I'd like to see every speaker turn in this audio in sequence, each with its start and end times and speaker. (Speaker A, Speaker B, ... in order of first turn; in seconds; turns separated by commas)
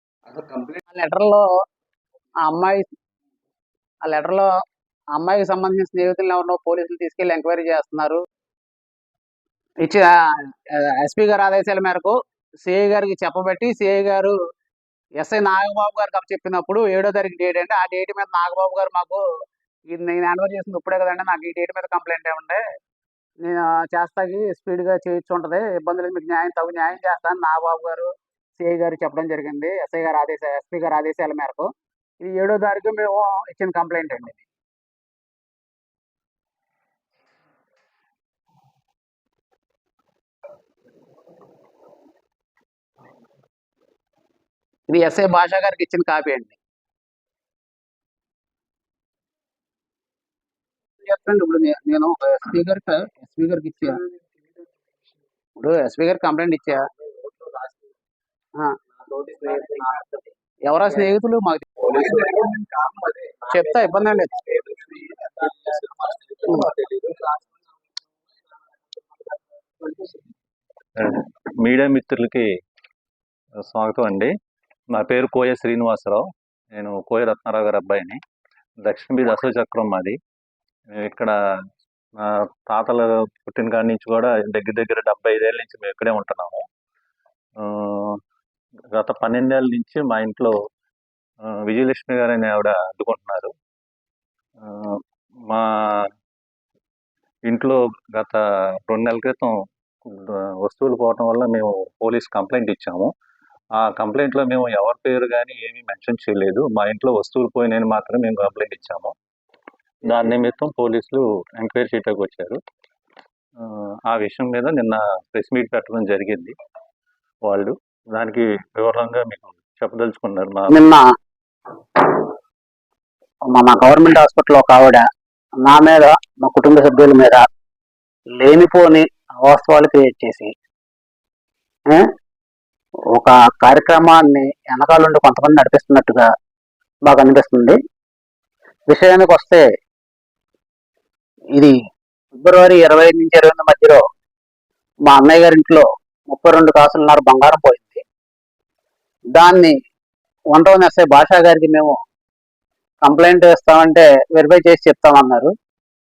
Speaker A: 0.3-0.7, Speaker B: 0.8-1.4, Speaker B: 2.5-2.8, Speaker B: 4.0-4.5, Speaker B: 5.2-8.2, Speaker B: 9.8-10.1, Speaker B: 10.7-14.3, Speaker B: 15.2-19.2, Speaker B: 19.9-22.6, Speaker B: 23.4-34.4, Speaker B: 44.9-46.6, Speaker B: 51.0-54.0, Speaker B: 55.6-56.8, Speaker A: 59.1-60.1, Speaker B: 60.7-62.5, Speaker A: 62.1-63.5, Speaker B: 63.5-64.5, Speaker A: 64.4-67.5, Speaker A: 69.2-70.2, Speaker C: 71.0-72.5, Speaker C: 73.7-74.3, Speaker C: 74.9-78.2, Speaker C: 78.8-80.2, Speaker C: 80.9-81.3, Speaker C: 82.2-86.6, Speaker C: 87.6-88.2, Speaker C: 89.0-90.5, Speaker C: 91.7-93.5, Speaker C: 94.6-96.1, Speaker C: 97.5-99.5, Speaker C: 100.1-103.1, Speaker C: 103.8-109.1, Speaker C: 110.1-112.6, Speaker C: 113.6-116.5, Speaker C: 117.5-120.8, Speaker B: 120.7-121.1, Speaker B: 123.5-125.0, Speaker B: 125.6-127.5, Speaker B: 128.4-130.5, Speaker B: 133.1-136.3, Speaker B: 137.1-137.8, Speaker B: 138.9-139.7, Speaker B: 142.3-144.0, Speaker B: 145.1-148.0, Speaker B: 149.3-149.8, Speaker B: 150.5-152.0, Speaker B: 153.0-155.5